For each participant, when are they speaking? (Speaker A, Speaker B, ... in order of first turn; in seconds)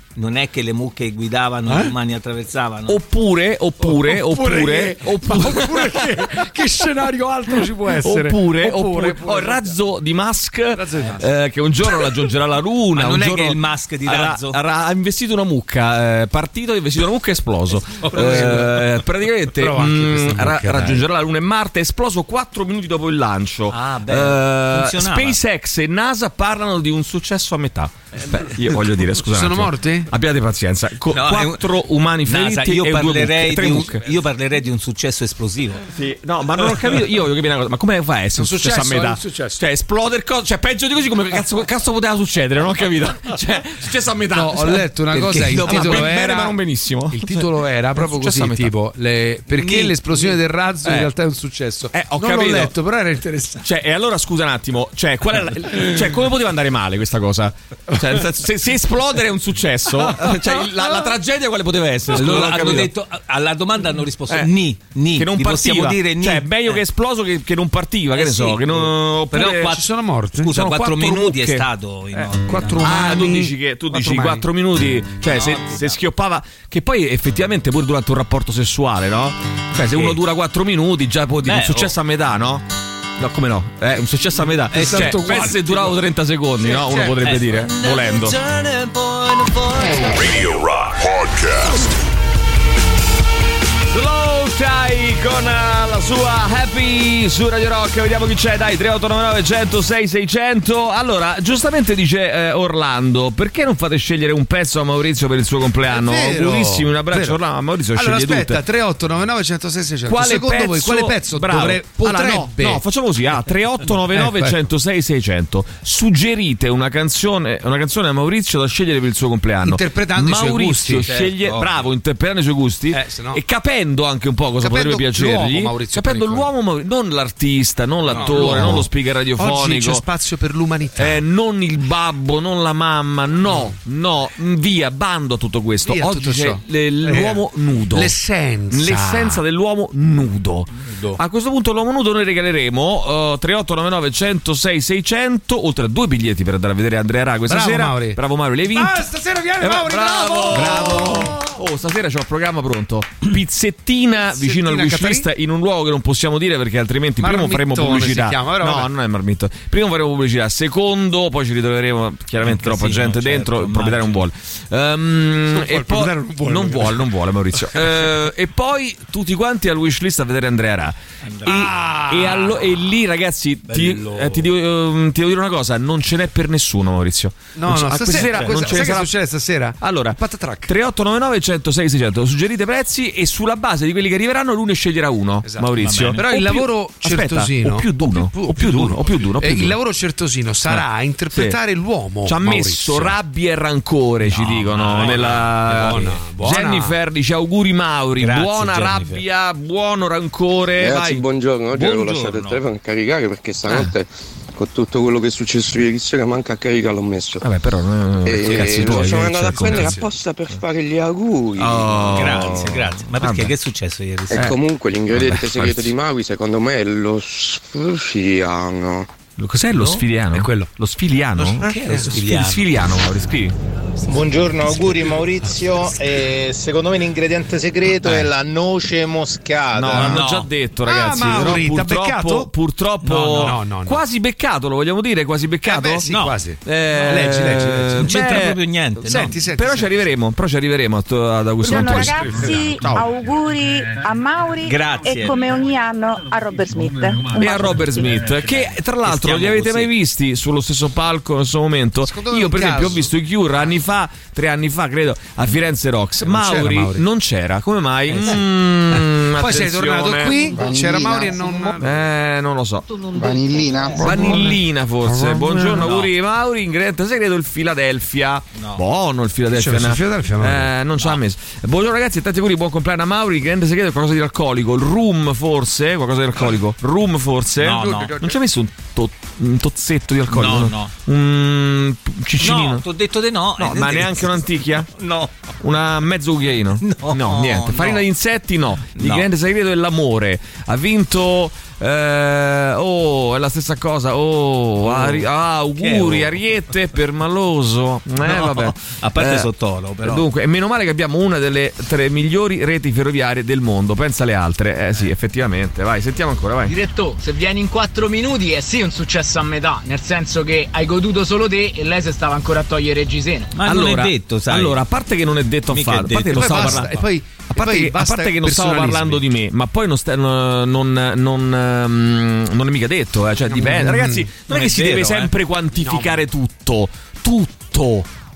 Speaker A: 0.2-3.0, 12.9-14.6, 23.7-25.4, 31.1-31.7, 32.2-35.8, 45.1-46.2, 49.6-50.4, 62.1-66.8, 68.1-69.9, 70.4-72.9, 75.3-76.0, 79.9-80.2, 81.5-81.9, 84.7-85.9, 87.2-88.9, 121.0-121.9, 128.1-128.8, 162.4-164.3, 171.3-171.7, 173.7-174.5, 178.3-178.8, 185.8-186.2, 194.3-196.2, 198.2-199.2, 201.8-202.6, 212.1-214.6, 221.6-222.8, 229.9-230.5, 233.0-233.6, 236.1-236.3, 238.0-239.3, 244.6-245.5, 248.3-248.5, 249.0-249.9, 265.8-266.1, 268.6-268.8, 277.6-278.2, 280.3-280.9, 282.4-285.3, 286.8-288.0, 288.9-289.3, 294.8-296.4, 298.2-300.3, 313.5-314.8, 315.7-316.9, 324.5-325.3
Speaker B: 2.9-6.3, 7.9-34.0, 36.0-44.9, 45.6-48.7, 50.9-51.1, 51.9-52.7, 53.6-62.9, 65.2-69.8, 70.5-71.7, 72.8-82.7, 83.2-88.5, 89.3-90.1, 93.9-108.6, 110.1-130.1, 131.0-138.1, 138.7-149.1, 149.6-179.1, 179.8-189.8, 190.7-191.6, 192.3-201.3, 207.4-210.0, 211.6-213.5, 214.3-214.6, 215.1-215.9, 219.4-223.6, 229.7-236.1, 236.6-238.6, 239.5-243.1, 247.3-260.6, 261.8-262.9, 264.0-282.9, 283.6-284.9, 285.6-299.5, 300.0-306.7, 313.6-328.1
Speaker C: 3.8-9.7, 10.7-11.3, 18.0-18.8, 19.5-21.0, 29.3-30.1, 38.4-39.6, 44.3-46.6, 47.1-53.7, 59.9-61.1, 69.7-70.5, 72.2-74.5, 84.7-85.6, 86.7-87.2, 105.9-107.4, 107.9-112.8, 114.1-114.6, 119.6-121.1, 122.9-123.4, 124.6-126.5, 128.1-131.2, 135.8-137.4, 137.9-139.4, 147.5-148.2, 148.7-151.5, 154.2-155.3, 157.2-158.9, 165.5-167.1, 171.4-172.6, 177.6-180.7, 185.4-193.2, 195.0-197.0, 209.7-210.0, 220.3-220.7, 221.6-222.1, 230.0-230.2, 230.8-232.5, 233.4-234.0, 235.7-238.4, 239.1-239.9, 241.7-242.1, 252.0-253.1, 256.2-257.0, 259.2-262.1, 264.1-264.4, 265.1-265.9, 269.5-270.7, 277.7-278.3, 316.3-319.2, 323.5-324.3, 325.8-326.2
Speaker D: 90.0-91.9
Speaker E: 200.8-207.4, 208.2-212.5, 214.3-219.1
Speaker F: 224.1-230.1
Speaker G: 241.6-248.1
Speaker H: 306.7-313.5